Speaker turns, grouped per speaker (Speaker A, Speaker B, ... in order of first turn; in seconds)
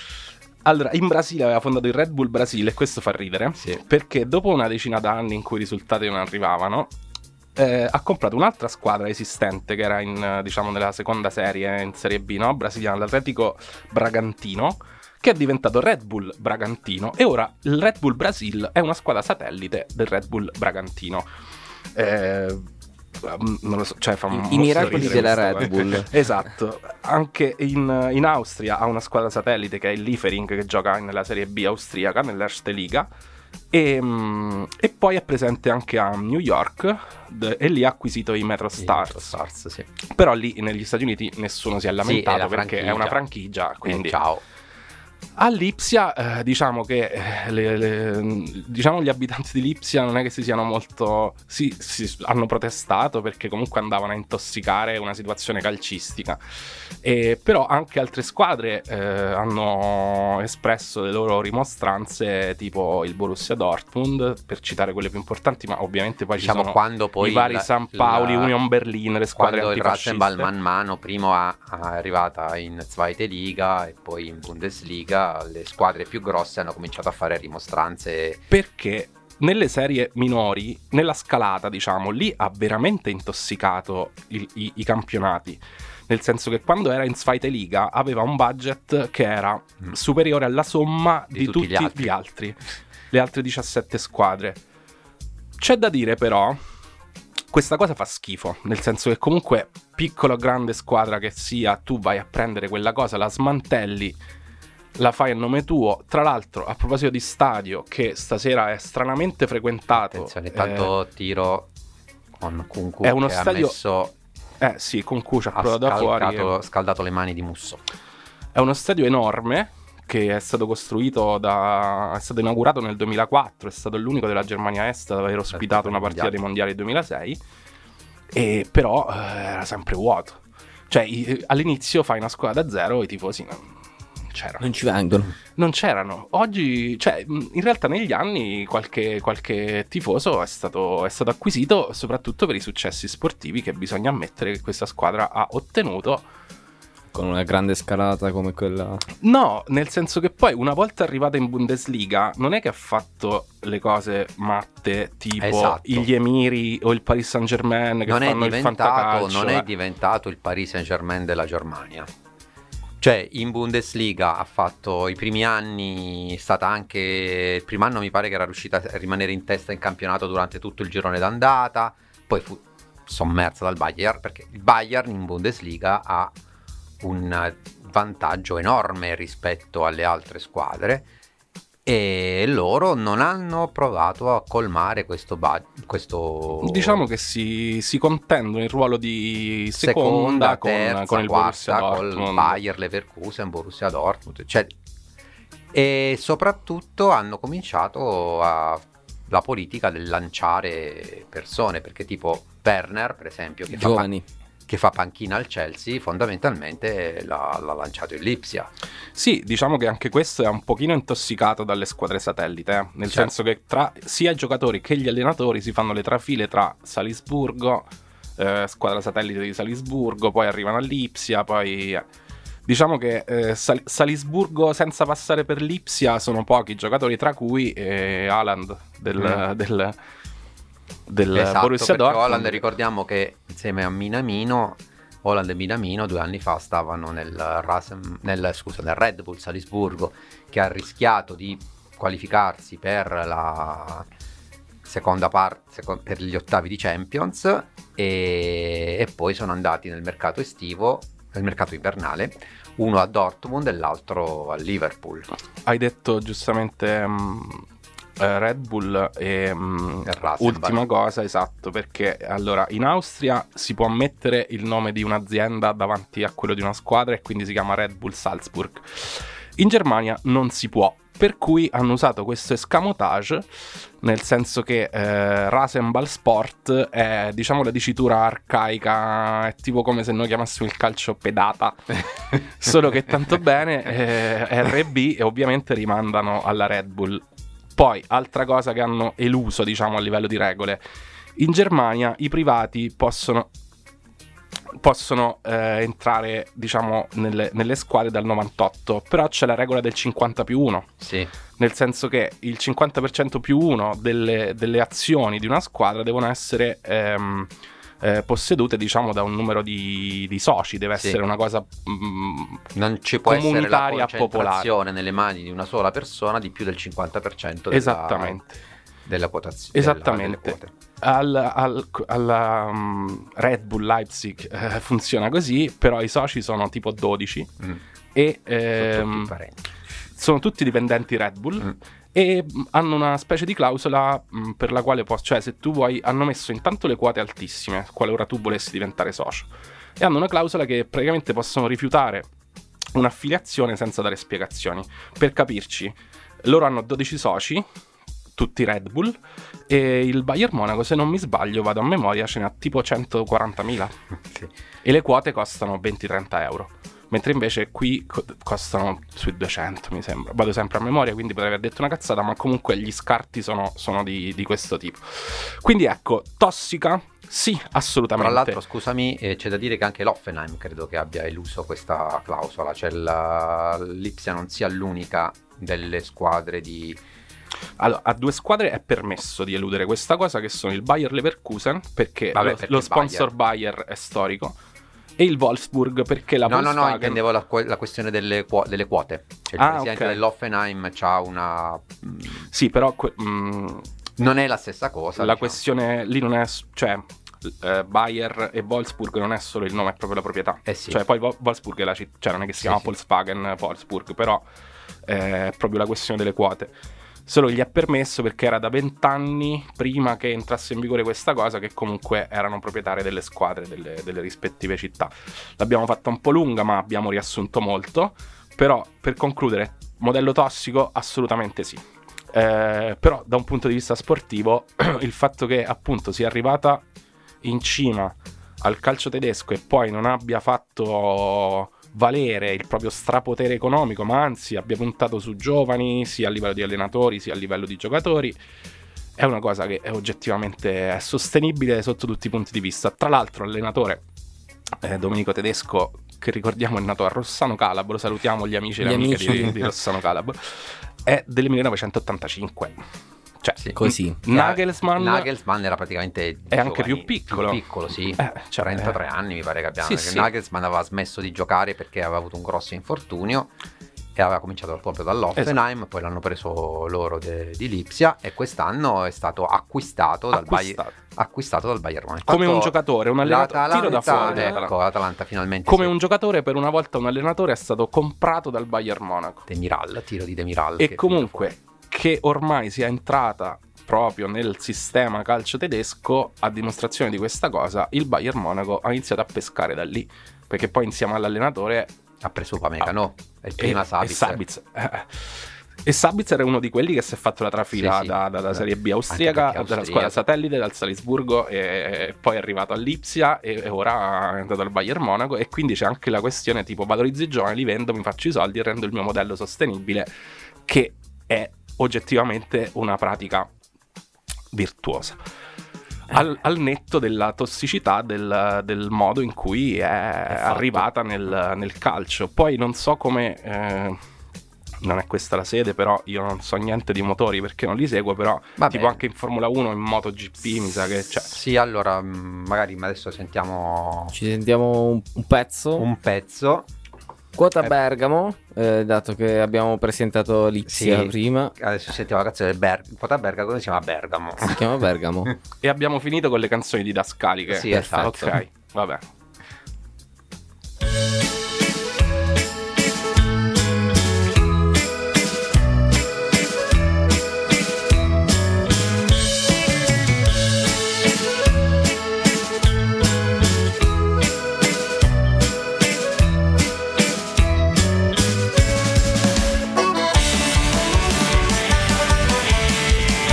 Speaker A: 0.6-6.9, 7.5-21.2, 21.9-22.7, 23.2-33.1, 33.7-39.3, 40.1-44.2, 45.4-56.4, 57.0-70.5, 78.5-92.6, 93.1-94.6, 95.6-96.6, 97.5-104.2, 105.0-110.9, 113.0-113.7, 114.6-116.5, 118.5-127.4, 128.3-133.7, 134.3-134.7, 135.6-146.2, 149.2-159.7, 186.6-192.6, 209.2-222.0, 222.7-229.9, 231.1-232.6, 255.7-257.6, 258.2-273.4, 274.0-287.2, 287.8-290.8, 291.4-293.5, 294.7-300.9, 301.6-312.6, 313.2-314.7, 317.7-318.6, 319.7-327.6, 328.1-329.3, 330.2-342.3, 342.9-347.6, 348.4-349.2, 349.7-353.9, 354.8-368.6, 377.8-384.5, 385.2-387.2, 389.6-390.2, 392.5-393.9, 395.2-404.4, 405.1-406.7, 407.3-426.8, 427.4-438.4, 439.2-444.0, 444.8-452.8, 453.4-455.3, 456.5-457.6, 458.1-459.0, 459.8-460.3, 470.3-470.9, 472.3-474.7, 475.7-479.4, 480.8-491.9, 493.6-510.1, 510.7-513.5, 514.5-515.2, 516.1-524.0, 524.8-531.3, 545.6-549.0
Speaker B: 24.3-26.1, 134.6-135.3, 147.1-149.0, 203.7-204.2, 448.8-449.6, 453.8-454.2, 534.1-535.9, 537.4-541.5, 544.4-545.3
Speaker C: 24.7-25.2, 38.8-39.9, 42.0-43.2, 43.8-44.4, 66.3-68.5, 69.3-78.4, 91.3-92.1, 109.9-111.7, 112.4-114.1, 115.5-117.8, 125.5-126.3, 155.4-156.1, 158.1-162.1, 163.0-176.3, 177.0-181.1, 181.8-187.0, 189.8-194.7, 195.7-204.1, 204.7-208.7, 231.3-244.1, 244.8-255.3, 260.0-260.8, 301.0-301.3, 312.7-318.4, 319.1-320.7, 328.7-329.6, 368.2-377.0, 382.3-383.3, 386.4-392.4, 394.2-395.6, 400.6-401.0, 402.6-402.9, 454.3-463.5, 464.1-475.9, 479.5-481.5, 492.2-494.4, 497.7-500.2, 520.3-520.8, 528.6-529.0, 531.3-534.1, 535.8-536.7, 540.7-544.7, 547.5-548.3